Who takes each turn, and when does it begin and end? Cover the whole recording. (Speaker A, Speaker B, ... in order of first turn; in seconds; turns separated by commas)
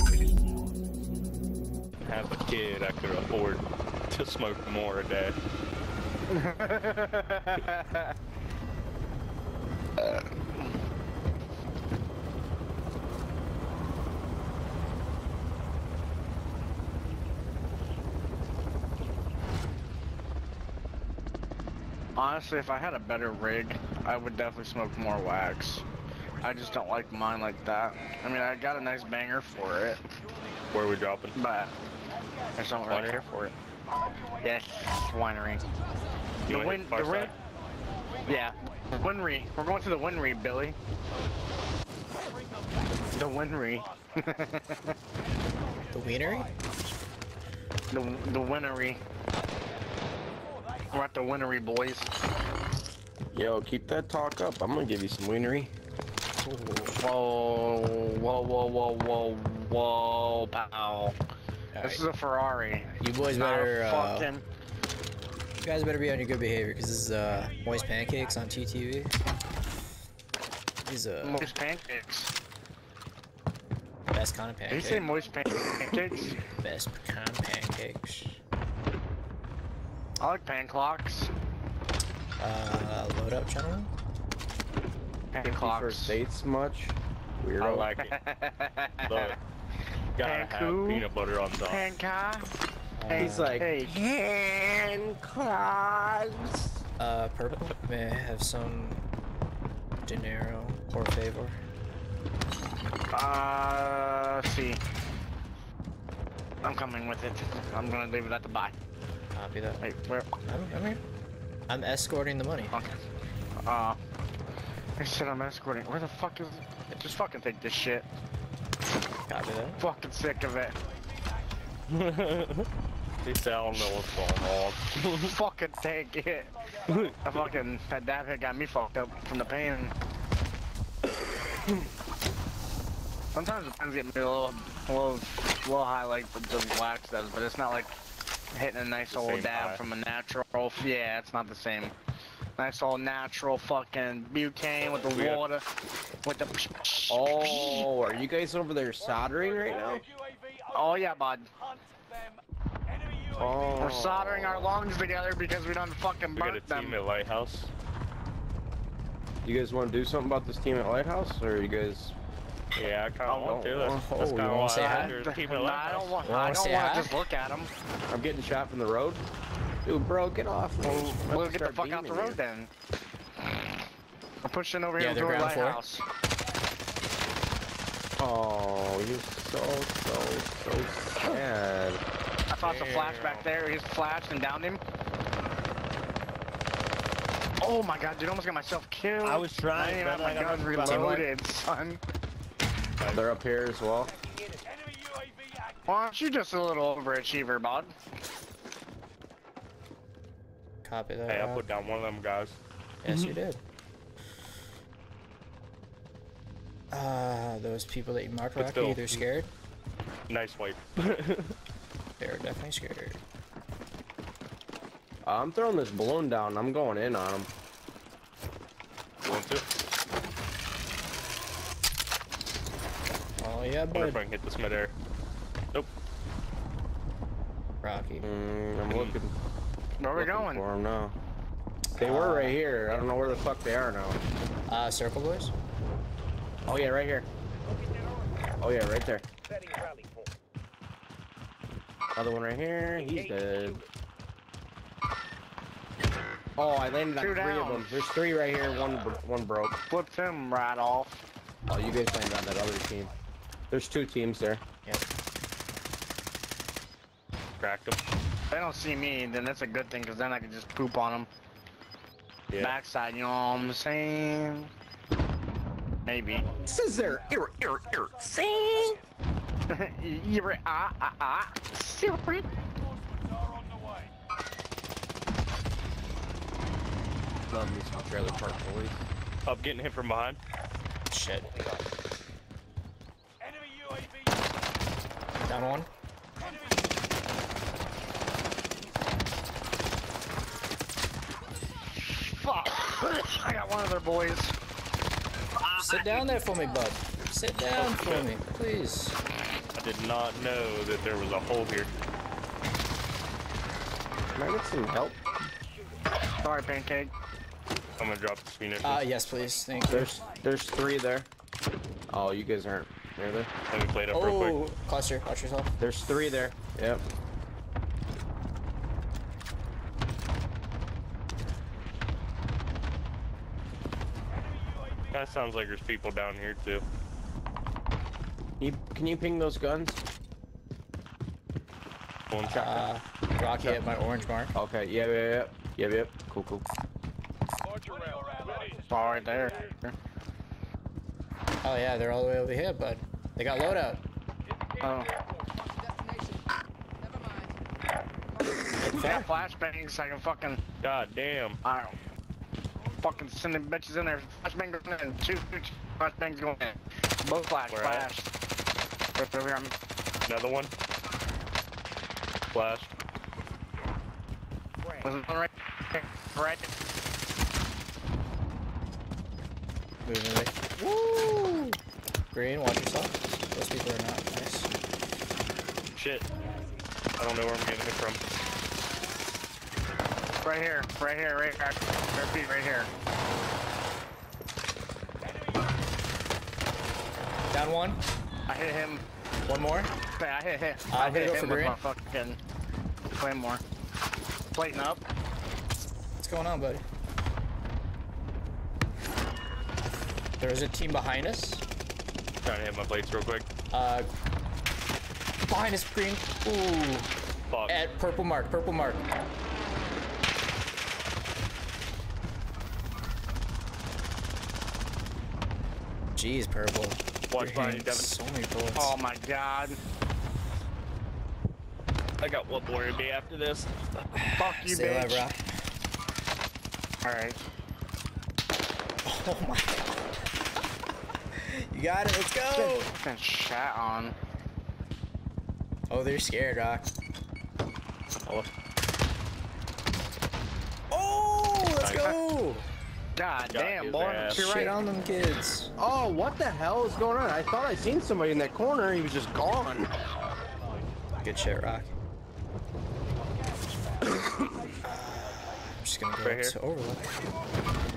Speaker A: 2.0-5.4, Speaker B: 6.3-8.0, Speaker B: 10.0-10.4, Speaker B: 22.1-25.8, Speaker B: 26.4-30.0, Speaker A: 30.7-31.3, Speaker B: 31.4-31.7, Speaker B: 32.6-33.5, Speaker A: 32.9-33.2, Speaker B: 34.4-35.6, Speaker A: 36.5-37.3, Speaker B: 36.5-37.3, Speaker B: 38.2-40.8, Speaker B: 43.1-44.9, Speaker C: 45.9-46.6, Speaker B: 47.9-49.0, Speaker B: 50.9-52.1, Speaker D: 53.3-55.7, Speaker C: 56.4-57.0, Speaker B: 56.9-61.2, Speaker C: 61.7-62.0, Speaker B: 61.8-64.4, Speaker C: 63.0-64.3, Speaker C: 65.6-69.1, Speaker C: 70.8-71.5, Speaker B: 71.2-72.3, Speaker C: 74.1-75.1, Speaker B: 74.7-76.4, Speaker C: 76.5-78.4, Speaker B: 80.2-81.3, Speaker C: 82.4-83.9, Speaker B: 85.3-86.2, Speaker D: 85.4-87.9, Speaker A: 87.6-88.1, Speaker B: 88.0-89.3, Speaker A: 89.1-89.4, Speaker A: 90.2-91.9, Speaker B: 90.2-91.1, Speaker B: 91.6-92.5, Speaker C: 93.0-93.5, Speaker B: 93.1-93.9, Speaker D: 93.1-96.8, Speaker C: 97.0-99.0, Speaker C: 100.0-101.6, Speaker B: 103.1-104.8, Speaker B: 106.6-108.7, Speaker C: 109.3-109.8, Speaker B: 109.8-110.3, Speaker C: 110.5-111.0, Speaker C: 111.7-112.7, Speaker B: 112.7-113.0, Speaker B: 113.6-114.0, Speaker B: 115.0-118.1, Speaker C: 119.3-119.8, Speaker B: 119.8-120.8, Speaker A: 121.9-122.7, Speaker A: 123.2-125.3, Speaker B: 125.1-129.9, Speaker A: 126.9-127.2, Speaker B: 133.3-137.9, Speaker B: 138.5-141.9, Speaker A: 139.1-139.8, Speaker B: 142.6-145.6, Speaker A: 145.0-145.4, Speaker B: 146.2-147.9, Speaker D: 147.1-150.1, Speaker B: 150.7-151.5, Speaker D: 153.3-154.7, Speaker B: 153.8-157.0, Speaker A: 156.3-157.7, Speaker D: 159.4-162.1, Speaker A: 162.7-166.2, Speaker D: 163.3-164.1, Speaker C: 164.1-165.1, Speaker B: 164.8-167.7, Speaker C: 166.2-167.2, Speaker D: 168.1-169.2, Speaker D: 169.8-172.4, Speaker B: 170.8-172.7, Speaker B: 174.4-176.0, Speaker C: 175.0-175.8, Speaker D: 178.2-182.0, Speaker B: 182.5-184.8, Speaker A: 182.6-183.5, Speaker B: 187.6-192.0, Speaker A: 189.2-191.2, Speaker C: 190.8-191.2, Speaker D: 193.1-194.1, Speaker B: 195.8-197.9, Speaker C: 200.8-201.7, Speaker A: 201.3-203.4, Speaker C: 203.0-203.6, Speaker C: 206.9-209.5, Speaker A: 208.6-209.2, Speaker A: 210.3-211.5, Speaker C: 212.2-213.2, Speaker D: 215.2-217.5, Speaker A: 219.2-219.7, Speaker C: 223.4-224.2, Speaker A: 223.9-224.9, Speaker C: 227.8-228.3, Speaker D: 228.2-229.3, Speaker A: 228.9-229.2, Speaker B: 230.0-230.6, Speaker D: 230.1-231.2, Speaker C: 232.0-232.6, Speaker D: 232.0-234.2, Speaker C: 234.7-235.5, Speaker D: 236.7-237.3, Speaker D: 238.6-239.2, Speaker D: 242.2-243.8, Speaker D: 246.6-249.8, Speaker B: 247.2-248.0, Speaker B: 249.9-251.2, Speaker D: 251.7-253.1, Speaker D: 253.7-254.6, Speaker A: 257.6-258.0, Speaker B: 258.5-261.3, Speaker A: 262.5-262.8, Speaker B: 262.6-264.7, Speaker B: 266.0-266.5, Speaker D: 266.6-269.0, Speaker B: 269.7-272.5, Speaker D: 277.5-279.0, Speaker A: 279.4-280.4, Speaker C: 281.1-281.5, Speaker C: 285.4-285.9, Speaker B: 292.0-294.5, Speaker B: 295.6-296.2, Speaker C: 295.8-299.2, Speaker A: 297.7-298.3, Speaker A: 299.7-301.9, Speaker D: 304.4-305.2, Speaker B: 306.4-307.1, Speaker A: 308.0-309.0, Speaker C: 308.8-310.1, Speaker D: 309.9-311.3, Speaker D: 312.1-313.5, Speaker A: 313.7-314.6, Speaker C: 314.1-315.7, Speaker D: 315.8-317.0, Speaker A: 325.1-326.8, Speaker D: 328.6-330.0, Speaker A: 332.3-332.6, Speaker D: 332.5-332.9, Speaker C: 332.5-334.5, Speaker D: 334.5-336.6, Speaker B: 338.7-339.9, Speaker C: 341.6-344.0, Speaker B: 344.8-345.1, Speaker C: 348.8-349.3, Speaker B: 348.9-350.6, Speaker A: 350.8-351.6, Speaker B: 351.6-351.9, Speaker B: 353.0-358.3, Speaker A: 357.7-358.1, Speaker B: 359.1-359.7, Speaker A: 360.2-360.7, Speaker A: 362.5-362.9, Speaker B: 365.0-366.7, Speaker C: 370.0-371.8, Speaker C: 372.3-374.7, Speaker A: 375.9-376.2, Speaker A: 377.2-378.2, Speaker B: 380.4-382.9, Speaker C: 387.5-388.0, Speaker B: 388.5-389.0, Speaker C: 389.4-389.9, Speaker B: 390.1-392.4, Speaker C: 390.9-391.8, Speaker B: 393.2-393.6, Speaker B: 394.5-395.0, Speaker C: 396.2-396.8, Speaker C: 400.4-401.6, Speaker A: 402.4-403.5, Speaker C: 403.7-404.1, Speaker C: 405.5-407.1, Speaker A: 407.5-407.8, Speaker C: 407.7-409.1, Speaker C: 416.1-418.9, Speaker A: 417.3-418.1, Speaker B: 418.7-419.8, Speaker A: 422.2-423.7, Speaker C: 424.1-425.4, Speaker B: 424.3-425.3, Speaker B: 427.0-427.4, Speaker C: 429.0-430.1, Speaker C: 431.3-432.9, Speaker B: 432.5-434.1, Speaker C: 435.9-436.9, Speaker A: 438.2-438.5, Speaker C: 440.9-442.6, Speaker A: 441.8-442.2, Speaker B: 443.1-444.8, Speaker A: 443.5-444.5, Speaker C: 444.3-445.7, Speaker D: 445.8-449.9, Speaker C: 451.2-451.9, Speaker C: 454.8-457.1, Speaker A: 456.2-456.5